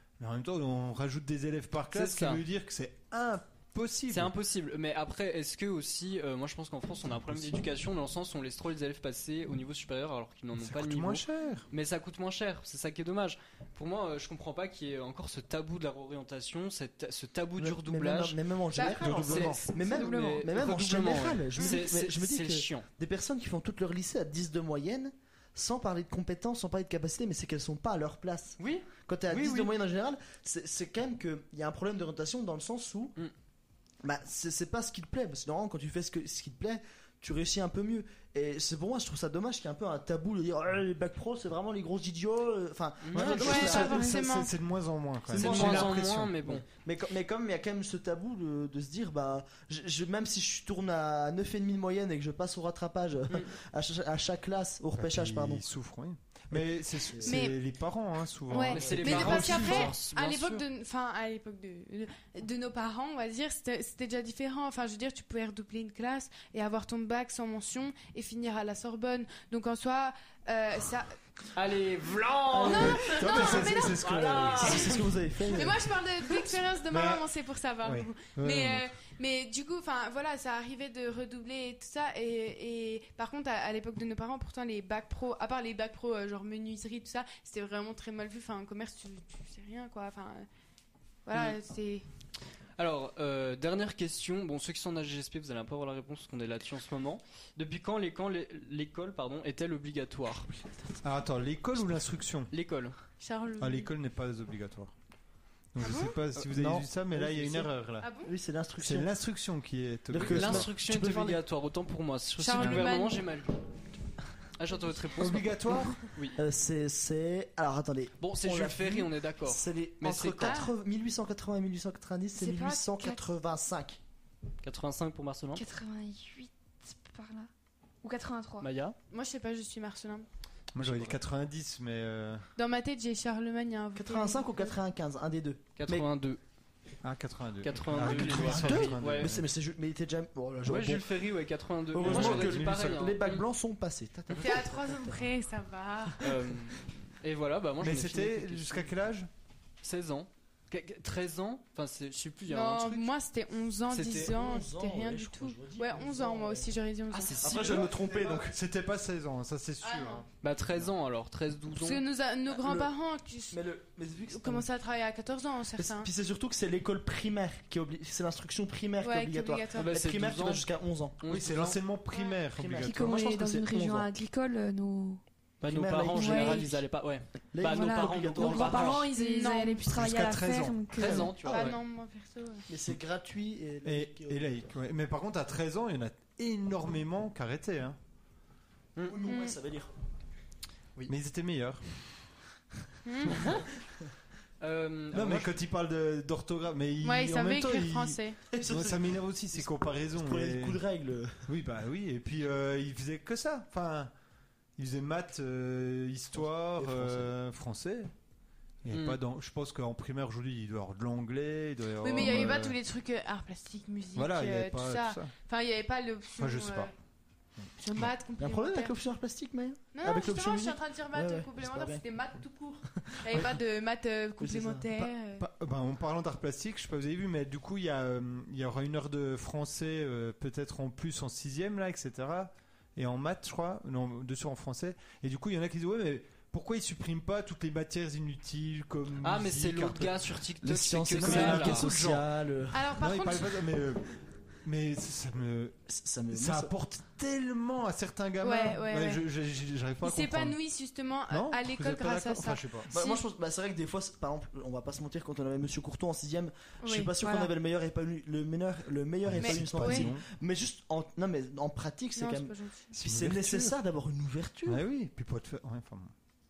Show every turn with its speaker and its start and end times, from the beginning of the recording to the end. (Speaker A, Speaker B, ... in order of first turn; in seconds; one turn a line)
Speaker A: 0.2-4.3
Speaker B: 1.9-2.4
Speaker B: 4.1-22.9
Speaker A: 7.3-7.6
Speaker A: 10.6-11.7
Speaker C: 17.6-33.2
Speaker D: 18.8-19.0
Speaker A: 18.8-19.6
Speaker E: 19.9-20.4
Speaker B: 28.6-29.7
Speaker C: 34.0-44.0
Speaker B: 43.0-43.8
Speaker A: 43.2-46.3
Speaker D: 43.3-44.5
Speaker C: 45.3-55.6
Speaker B: 45.3-46.6
Speaker A: 55.0-60.0
Speaker C: 56.5-57.4
Speaker D: 57.3-57.6
Speaker D: 58.5-71.2
Speaker B: 58.7-60.6
Speaker C: 58.8-59.4
Speaker B: 71.5-75.1
Speaker C: 72.5-73.5
Speaker D: 72.6-74.9
Speaker A: 72.7-74.9
Speaker C: 74.4-75.8
Speaker D: 75.4-90.5
Speaker A: 76.9-77.3
Speaker A: 77.8-78.9
Speaker D: 91.3-92.0
Speaker B: 91.3-91.6
Speaker B: 92.8-100.5
Speaker A: 101.0-102.5
Speaker B: 102.5-103.0
Speaker D: 103.2-103.9
Speaker A: 103.6-104.9
Speaker A: 105.7-108.1
Speaker D: 105.8-106.2
Speaker C: 106.4-107.7
Speaker D: 108.0-108.3
Speaker C: 108.2-109.1
Speaker A: 108.8-110.7
Speaker C: 110.1-111.4
Speaker B: 110.2-113.5
Speaker D: 112.4-113.2
Speaker A: 112.6-112.9
Speaker B: 114.6-116.4
Speaker A: 115.2-116.1
Speaker C: 116.3-124.0
Speaker B: 118.2-120.7
Speaker D: 120.4-120.7
Speaker E: 122.3-123.2
Speaker B: 124.6-125.6
Speaker E: 125.6-127.5
Speaker E: 128.0-128.7
Speaker B: 128.6-129.0
Speaker D: 129.1-130.3
Speaker A: 130.7-132.4
Speaker B: 130.8-131.2
Speaker D: 132.6-134.7
Speaker C: 133.9-136.1
Speaker B: 135.8-136.4
Speaker A: 137.0-139.5
Speaker B: 137.6-139.4
Speaker C: 138.0-141.1
Speaker B: 140.7-143.4
Speaker C: 141.9-145.3
Speaker A: 142.0-143.1
Speaker D: 144.4-146.4
Speaker B: 146.2-148.9
Speaker A: 147.8-149.3
Speaker B: 149.8-153.1
Speaker D: 152.5-157.6
Speaker B: 153.9-154.3
Speaker C: 154.0-156.7
Speaker B: 157.1-157.9
Speaker C: 157.4-158.6
Speaker A: 157.6-160.3
Speaker D: 159.8-160.2
Speaker B: 160.4-162.0
Speaker D: 161.8-163.6
Speaker C: 162.6-162.9
Speaker C: 163.5-164.7
Speaker D: 164.3-166.1
Speaker C: 165.8-171.2
Speaker D: 169.0-169.9
Speaker B: 169.8-170.7
Speaker B: 171.2-171.8
Speaker A: 171.3-173.1
Speaker C: 172.5-174.1
Speaker E: 172.8-175.2
Speaker B: 175.6-179.1
Speaker C: 175.6-176.8
Speaker E: 176.1-176.7
Speaker C: 177.5-179.1
Speaker E: 177.6-181.5
Speaker D: 179.1-179.9
Speaker A: 179.9-180.9
Speaker B: 180.9-181.8
Speaker D: 181.4-182.7
Speaker C: 181.4-181.8
Speaker C: 182.7-184.6
Speaker A: 183.8-188.0
Speaker C: 189.0-189.9
Speaker D: 189.3-189.6
Speaker A: 191.1-192.1
Speaker D: 193.1-193.5
Speaker B: 193.3-193.7
Speaker B: 194.6-195.5
Speaker A: 195.1-200.8
Speaker D: 197.0-198.4
Speaker C: 198.5-201.5
Speaker A: 201.5-204.1
Speaker A: 204.8-208.1
Speaker C: 206.4-207.3
Speaker A: 208.8-212.8
Speaker B: 208.9-209.2
Speaker D: 212.0-216.9
Speaker A: 214.2-215.3
Speaker A: 216.4-216.9
Speaker A: 217.6-218.1
Speaker D: 217.8-218.9
Speaker C: 218.4-222.1
Speaker D: 219.9-225.5
Speaker C: 223.0-223.6
Speaker C: 224.4-224.9
Speaker A: 225.4-240.2
Speaker B: 239.2-241.9
Speaker C: 240.6-242.9
Speaker A: 241.2-242.3
Speaker D: 242.7-243.6
Speaker A: 243.0-245.8
Speaker C: 245.9-246.7
Speaker A: 246.3-250.6
Speaker D: 248.4-249.2
Speaker D: 250.0-253.2
Speaker A: 251.3-252.9
Speaker C: 252.9-264.8
Speaker D: 256.8-257.5
Speaker A: 259.3-260.2
Speaker D: 259.4-260.1
Speaker D: 262.2-262.9
Speaker A: 263.0-263.7
Speaker A: 264.7-266.1